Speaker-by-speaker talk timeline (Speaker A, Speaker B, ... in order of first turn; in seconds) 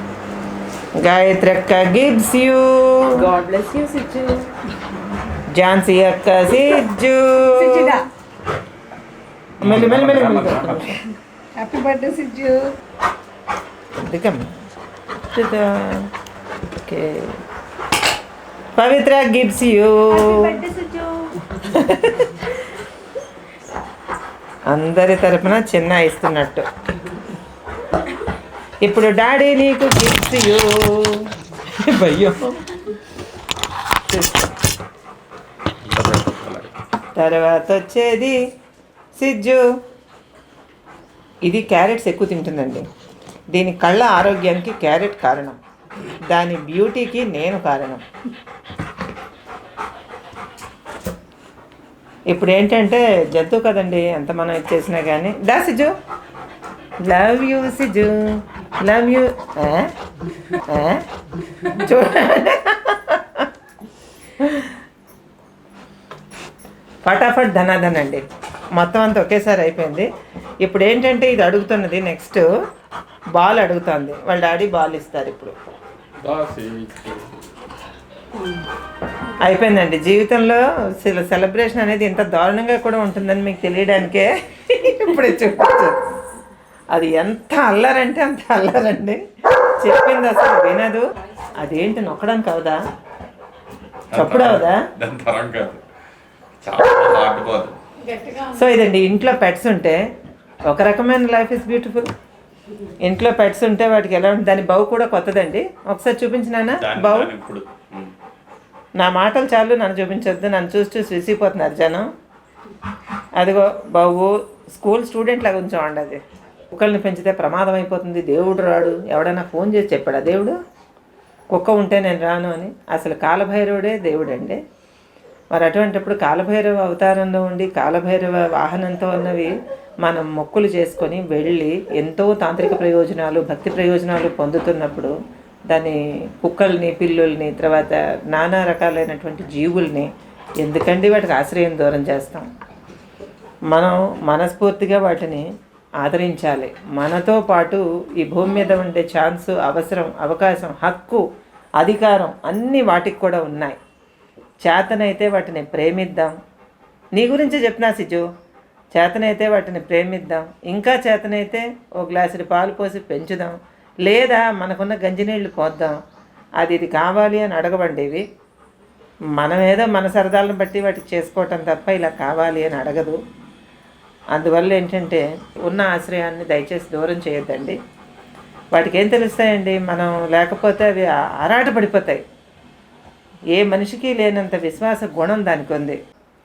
Speaker A: 1.0-3.3, 5.5-8.1, 9.6-11.0, 13.9-14.5, 15.2-16.1, 16.7-17.4, 18.7-20.7, 21.5-22.5, 24.7-26.6, 28.8-32.6, 34.1-34.4, 37.1-38.4, 39.2-39.6, 41.4-42.9, 43.5-45.6, 46.3-48.0, 52.3-55.9, 57.0-59.9, 60.5-63.5, 64.4-64.8, 67.0-68.2, 68.8-70.1, 70.6-72.4, 73.4-75.5, 79.4-86.0, 86.9-92.8, 94.1-94.8, 98.2-100.0, 100.7-102.1, 103.0-107.3, 109.0-112.1, 113.4-116.2, 116.7-120.6, 121.5-124.6, 125.5-135.1, 135.7-140.1, 140.6-142.5, 143.7-145.5, 146.0-151.2, 151.8-153.8, 154.6-156.3, 157.2-158.3, 158.9-166.0, 166.6-168.2, 169.4-173.2, 174.3-177.8, 178.7-182.2, 183.5-186.0
Speaker B: 3.1-4.5, 7.6-8.0, 11.6-12.7, 20.2-21.4
Speaker C: 9.6-11.0, 35.8-36.7, 76.2-77.3, 94.1-95.8, 96.6-97.8, 106.8-108.1